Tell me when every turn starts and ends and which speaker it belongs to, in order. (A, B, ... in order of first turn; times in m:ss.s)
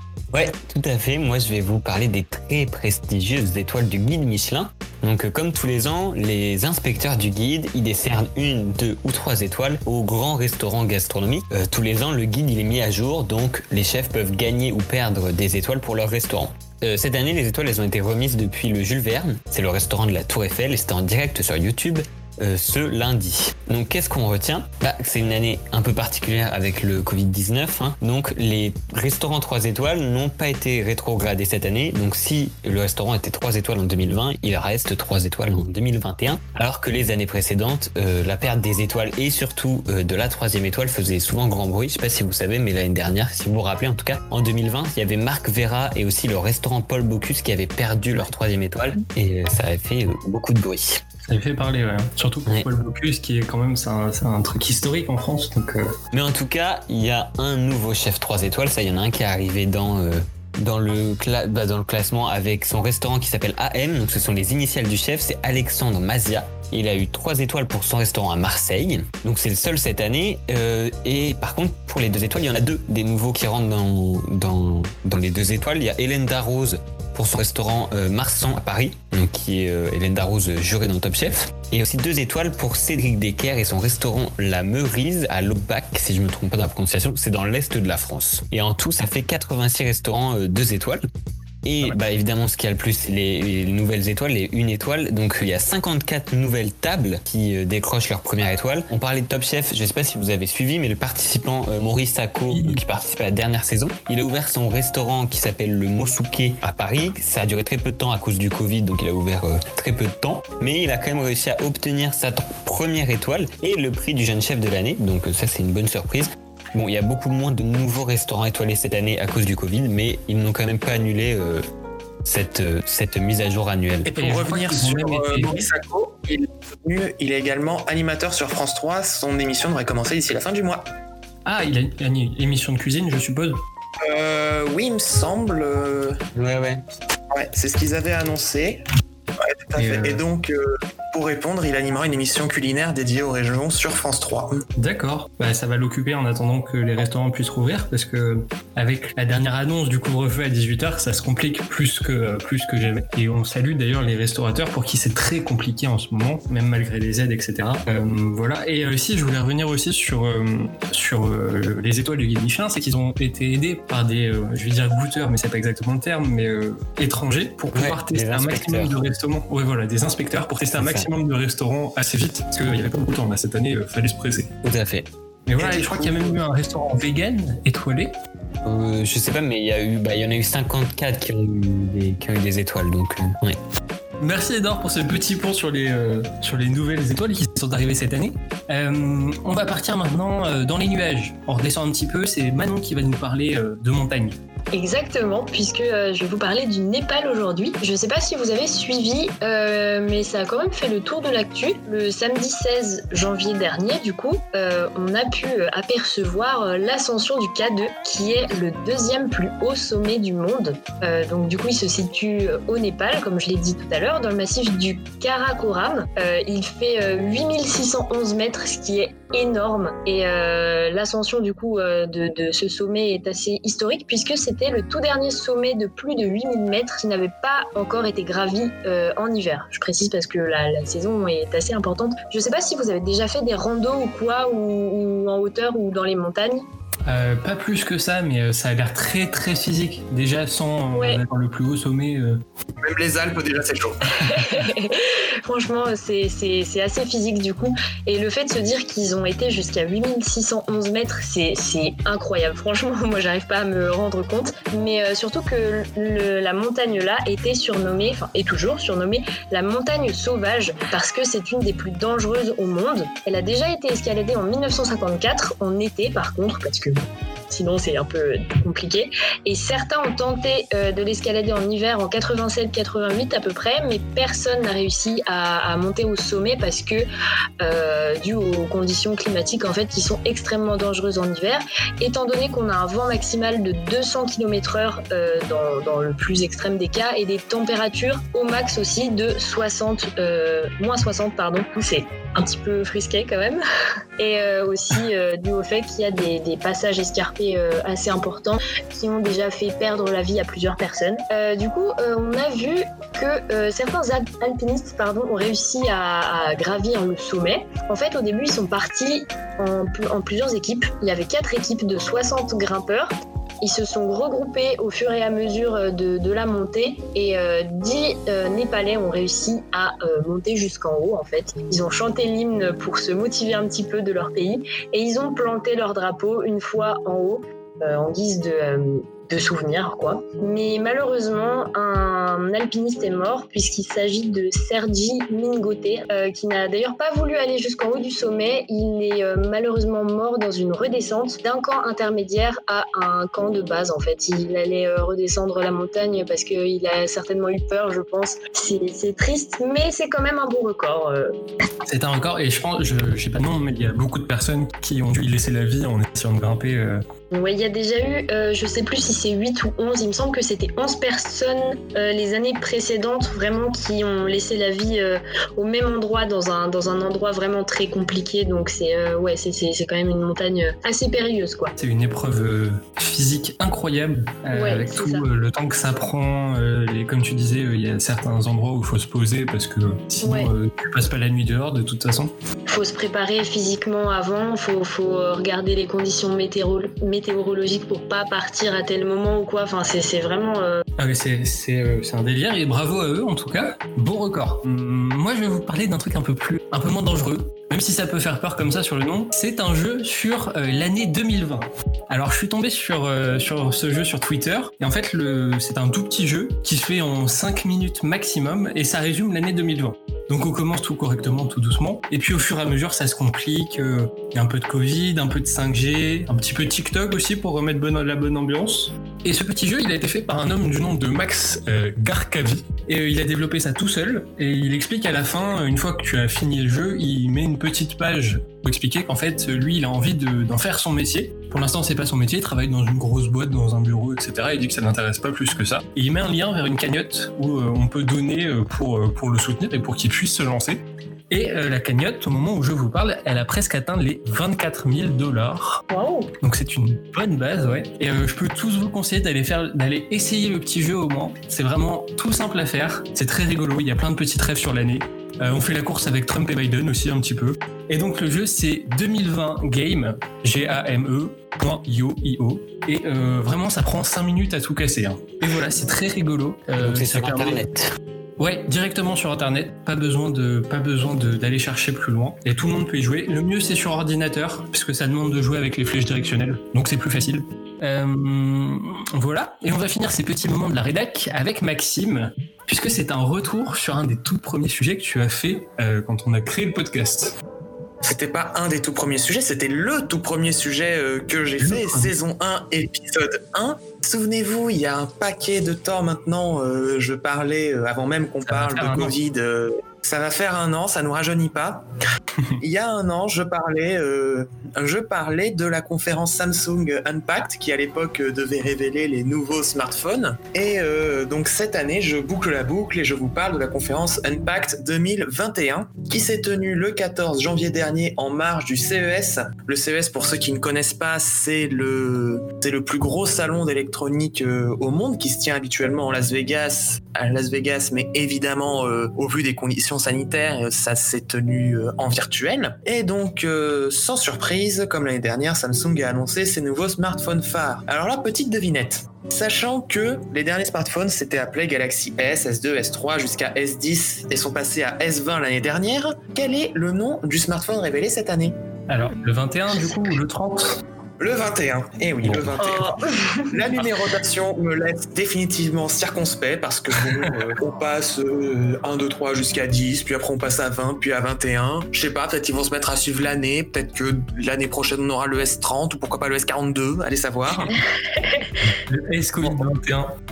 0:00.3-0:51.0 A
0:51.3-0:55.9 B
0:56.1-1:31.0 A
1:31.6-2:01.6 A
1:42.5-1:42.8 B
2:02.2-2:04.1 A
2:04.0-2:10.9 C
2:04.1-2:05.7 B
2:11.4-2:13.6 B
2:14.0-2:16.2 C
2:16.3-2:16.8 A
2:17.3-2:18.8 C
2:19.4-2:24.6 C
2:19.8-2:20.2 B
2:24.8-2:54.5 B
2:47.7-2:49.0 A
2:50.8-2:51.1 A
2:54.6-2:55.1 A
2:55.5-2:58.1 B
2:55.6-2:56.4 C
2:58.6-3:03.6 A
3:04.2-3:14.4 B
3:14.7-3:56.7 D
3:57.0-4:02.4 B
4:00.9-4:01.2 D
4:02.8-4:04.4 C
4:04.2-4:37.1 D
4:37.6-4:53.6 D
4:54.2-5:51.3 D
5:51.8-5:57.0 B
5:57.3-6:11.7 D
6:11.8-6:22.3 B
6:14.5-6:15.3 D
6:20.2-6:20.5 D
6:22.7-6:30.8 D
6:31.0-7:25.8 B
7:25.9-7:26.3 D
7:26.4-7:47.6 B
7:46.8-7:47.9 A
7:48.4-8:07.3 B
8:08.0-8:21.8 C
8:11.6-8:12.1 B
8:18.5-8:19.1 B
8:22.6-9:08.6 C
9:08.9-9:10.8 B
9:11.2-9:27.8 C
9:12.6-9:13.7 D
9:28.2-9:28.6 D
9:28.7-9:30.1 B